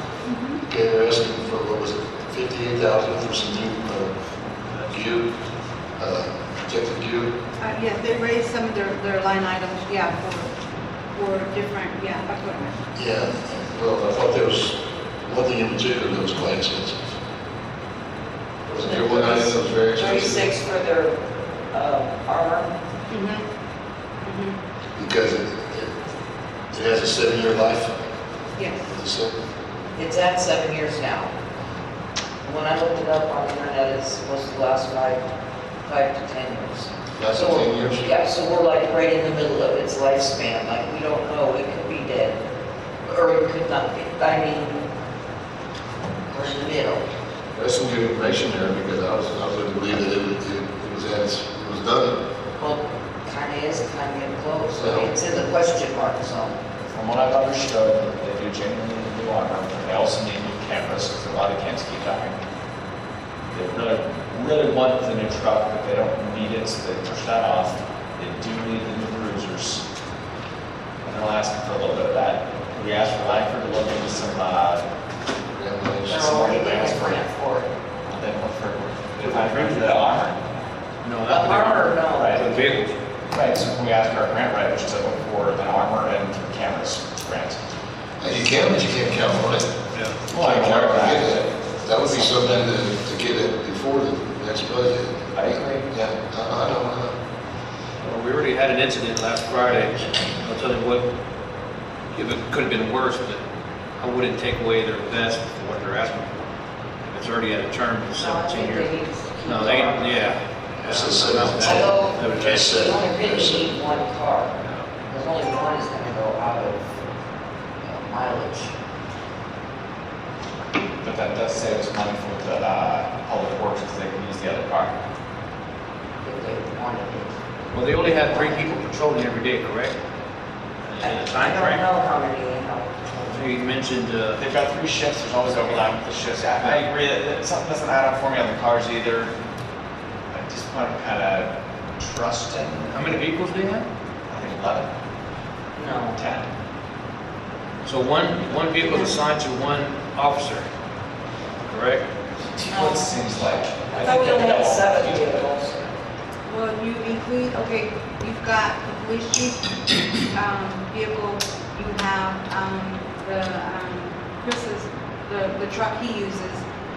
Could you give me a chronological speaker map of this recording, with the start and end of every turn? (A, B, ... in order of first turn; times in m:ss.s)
0:00.2-0:00.6 A
0:00.6-0:04.1 B
0:04.8-0:05.3 B
0:06.0-0:07.4 B
0:07.6-0:10.5 A
0:11.1-0:12.8 A
0:13.0-0:17.1 B
0:18.7-0:20.5 B
0:18.7-0:21.2 C
0:21.7-0:22.7 C
0:23.1-0:23.4 A
0:24.2-0:24.6 A
0:25.0-0:25.9 B
0:26.7-0:27.9 B
0:28.6-0:28.9 A
0:28.9-0:29.3 B
0:30.0-0:31.3 C
0:32.4-0:35.2 C
0:35.8-0:42.4 C
0:37.2-0:38.1 B
0:43.0-0:44.9 C
0:46.3-0:47.0 C
0:47.5-0:52.2 B
0:52.6-0:56.6 C
0:54.8-0:55.1 B
0:56.8-1:02.4 D
1:03.5-1:09.8 D
1:11.0-1:14.8 D
1:15.5-1:16.3 B
1:16.0-1:17.7 C
1:16.2-1:17.2 D
1:18.0-1:20.4 D
1:19.2-1:20.0 E
1:21.0-1:22.9 E
1:21.3-1:22.7 C
1:22.2-1:22.5 D
1:23.3-1:27.6 D
1:28.2-1:29.7 B
1:29.9-1:31.1 E
1:30.3-1:37.2 B
1:30.3-1:32.7 D
1:35.3-1:36.1 D
1:38.0-1:41.1 E
1:42.1-1:43.4 E
1:44.0-1:46.3 E
1:47.1-1:48.9 E
1:48.1-1:50.3 C
1:49.4-1:52.9 E
1:50.8-1:53.9 B
1:51.5-1:54.5 C
1:55.1-1:57.0 C
1:57.8-1:58.7 C
2:01.0-2:05.0 D
2:06.2-2:07.3 C
2:07.7-2:10.0 E
2:08.0-2:08.7 C
2:10.8-2:11.8 E
2:11.0-2:13.5 C
2:13.3-2:14.4 E
2:14.3-2:19.3 D
2:20.3-2:23.2 D
2:22.9-2:23.9 E
2:24.3-2:24.9 D
2:25.7-2:26.2 C
2:26.1-2:26.5 D
2:27.8-2:30.7 E
2:28.8-2:29.1 A
2:31.6-2:32.1 E
2:32.5-2:35.5 D
2:32.7-2:33.2 C
2:33.9-2:35.8 C
2:36.5-2:46.6 A